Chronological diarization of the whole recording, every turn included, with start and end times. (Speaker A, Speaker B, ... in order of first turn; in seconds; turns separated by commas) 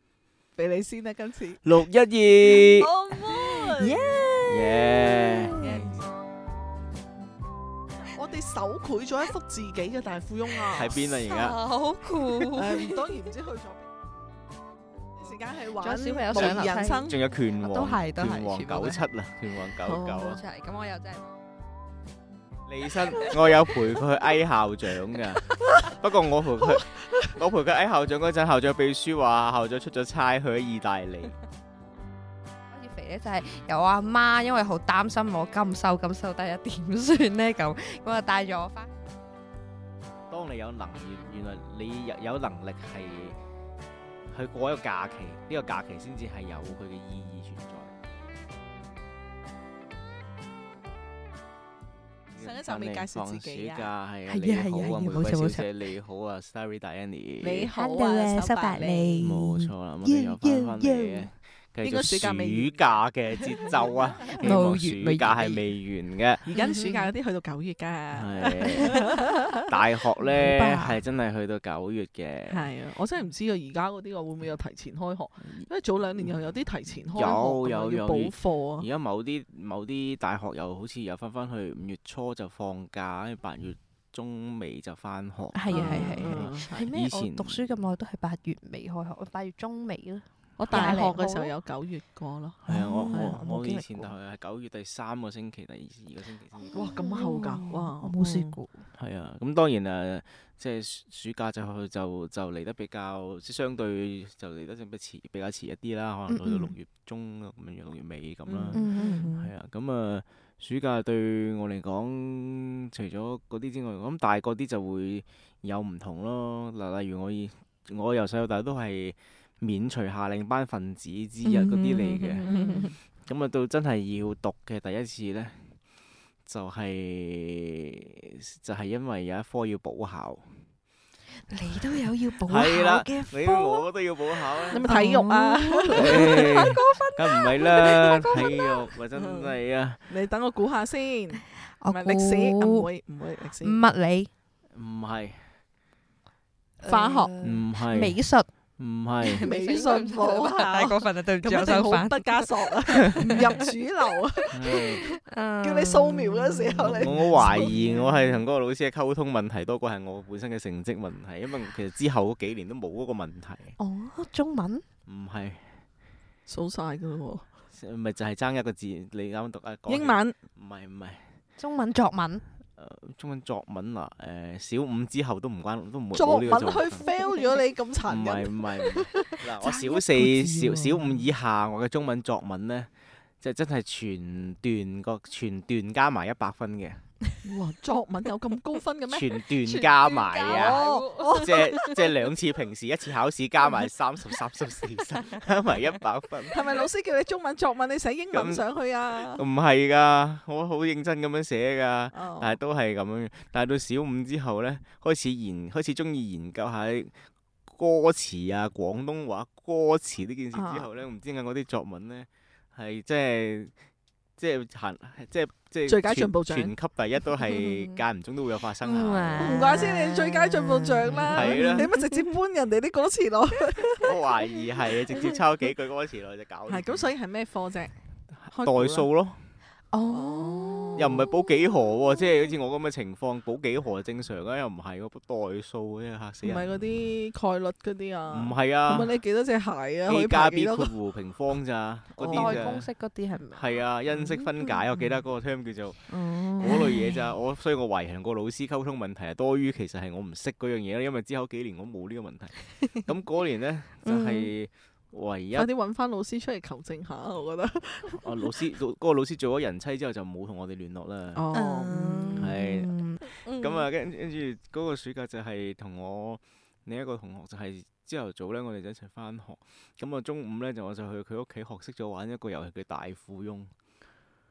Speaker A: 0.6-1.6, Speaker B: 1.6-2.9, Speaker A: 2.5-4.0, Speaker C: 3.3-5.8, Speaker B: 4.4-6.0, Speaker A: 5.6-6.0, Speaker A: 8.1-11.0, Speaker B: 10.7-11.6, Speaker C: 11.2-13.3, Speaker A: 12.4-13.9, Speaker A: 15.2-17.2, Speaker C: 15.8-17.1, Speaker B: 16.3-20.4, Speaker C: 17.6-19.0, Speaker C: 19.9-21.3, Speaker A: 19.9-20.3, Speaker B: 22.7-31.4, Speaker A: 25.6-25.9, Speaker A: 26.7-27.3, Speaker C: 32.7-38.9, Speaker B: 40.3-43.4, Speaker B: 44.3-48.0, Speaker B: 52.3-57.7, Speaker A: 52.4-53.9, Speaker C: 54.3-55.7, Speaker A: 57.4-59.2, Speaker C: 57.8-61.3, Speaker B: 59.2-66.5, Speaker A: 61.8-62.8, Speaker A: 63.5-64.5, Speaker C: 64.4-65.6, Speaker A: 66.5-69.7, Speaker C: 66.6-67.1, Speaker B: 68.1-72.7, Speaker C: 68.5-69.3, Speaker C: 70.3-71.0, Speaker A: 72.5-78.9, Speaker B: 77.1-87.6, Speaker C: 77.2-77.5, Speaker C: 85.5-91.5, Speaker A: 85.7-86.9, Speaker A: 90.6-93.8, Speaker B: 90.7-91.0, Speaker C: 92.7-94.1, Speaker B: 92.7-96.8, Speaker C: 96.7-98.8, Speaker A: 96.7-98.6, Speaker B: 99.0-122.5, Speaker C: 106.3-106.7, Speaker A: 108.5-109.3, Speaker C: 108.7-109.5, Speaker C: 121.5-122.9, Speaker A: 122.5-122.9, Speaker B: 123.2-125.8, Speaker B: 126.5-130.6, Speaker C: 131.5-138.8, Speaker B: 132.5-134.9, Speaker A: 134.7-136.6, Speaker B: 135.9-140.0, Speaker A: 139.2-139.6, Speaker A: 140.1-143.8, Speaker C: 141.8-142.9, Speaker C: 143.6-144.3, Speaker B: 144.8-145.5, Speaker C: 146.8-148.5, Speaker A: 146.8-147.3, Speaker B: 147.4-148.2, Speaker B: 148.8-149.5, Speaker C: 149.2-153.7, Speaker A: 149.4-158.2, Speaker C: 154.4-158.0, Speaker B: 154.5-155.1, Speaker B: 156.8-163.8, Speaker C: 163.8-164.8, Speaker B: 165.1-165.8, Speaker A: 166.5-167.5, Speaker B: 167.7-171.3, Speaker A: 169.9-170.4, Speaker C: 171.6-172.4, Speaker B: 172.8-177.1, Speaker A: 176.1-179.4, Speaker B: 178.1-187.0, Speaker C: 179.6-181.2, Speaker A: 187.4-189.4, Speaker B: 189.1-196.8, Speaker C: 189.6-192.1, Speaker A: 190.4-192.0, Speaker A: 196.5-199.4, Speaker B: 198.3-198.6, Speaker B: 199.2-213.7, Speaker A: 202.1-202.6, Speaker A: 210.5-210.9, Speaker B: 214.4-219.9, Speaker A: 215.9-216.7, Speaker C: 217.4-218.0, Speaker C: 218.8-222.3, Speaker A: 219.4-224.2, Speaker B: 221.3-221.9, Speaker B: 224.0-227.1, Speaker A: 226.7-227.9, Speaker B: 228.4-229.4, Speaker A: 228.5-229.1, Speaker C: 229.9-231.7, Speaker A: 230.1-231.3, Speaker B: 231.0-236.8, Speaker A: 236.4-240.9, Speaker B: 238.3-239.1, Speaker B: 240.1-242.9, Speaker A: 242.2-242.8, Speaker C: 242.3-243.8, Speaker B: 243.5-246.1, Speaker A: 244.1-245.2, Speaker A: 246.1-247.0, Speaker C: 246.3-247.1, Speaker B: 246.6-255.7, Speaker C: 254.0-254.5, Speaker A: 255.5-258.5, Speaker B: 258.2-261.4, Speaker A: 261.3-262.6, Speaker C: 261.5-263.9, Speaker B: 262.4-273.7